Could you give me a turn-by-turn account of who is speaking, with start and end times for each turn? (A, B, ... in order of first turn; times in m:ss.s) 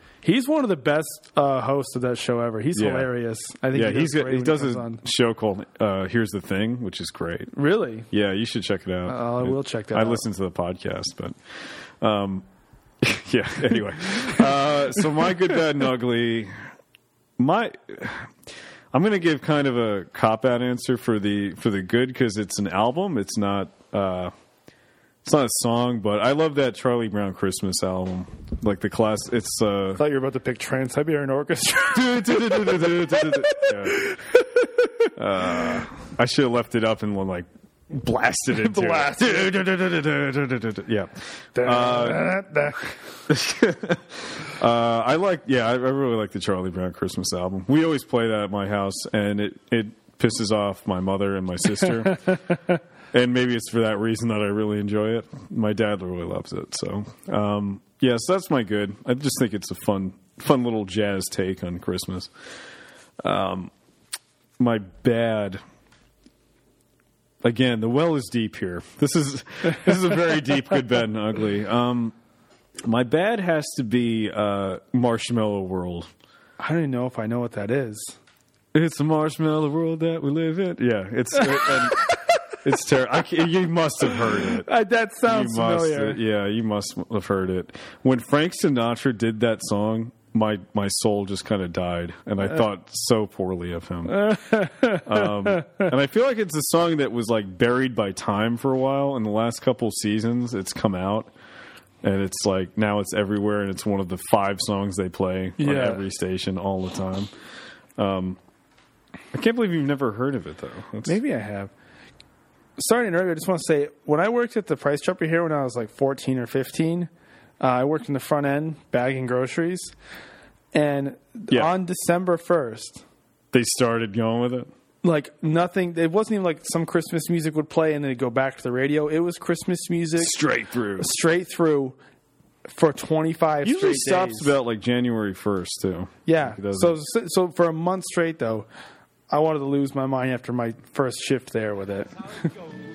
0:00.2-0:05.0 A
0:02.7-0:03.1 B
0:03.7-0:07.5 B
0:07.5-0:08.1 A
0:08.1-0:11.4 B
0:09.1-0:10.2 A
0:12.0-0:12.5 B
0:13.0-0:16.5 B
0:17.4-0:18.3 B
0:18.9-0:24.3 B
0:25.2-0:30.0 B
0:30.0-0:32.8 A
0:31.9-0:34.2 B
0:33.5-0:34.6 A
0:35.2-0:42.4 B
0:38.5-0:39.6 A
0:41.6-0:43.0 A
0:43.3-0:52.5 B
0:53.1-1:02.3 B
1:03.2-1:03.7 B
1:04.6-1:05.6 B
1:07.4-1:12.1 B
1:12.8-1:16.1 B
1:16.6-1:18.2 A
1:18.7-1:22.0 B
1:22.6-1:24.7 B
1:24.6-1:26.2 A
1:25.3-1:34.4 B
1:34.1-1:35.8 A
1:35.0-1:41.3 B
1:42.0-1:47.3 B
1:45.6-1:46.0 A
1:48.0-1:48.4 B
1:49.3-1:51.2 B
1:51.1-1:51.7 A
1:52.8-1:59.9 A
2:00.7-2:03.0 A
2:03.5-2:04.7 B
2:05.0-2:10.4 A
2:10.2-2:11.1 B
2:11.0-2:12.0 A
2:12.7-2:14.6 A
2:13.6-2:17.0 B
2:16.3-2:18.7 A
2:19.3-2:22.5 A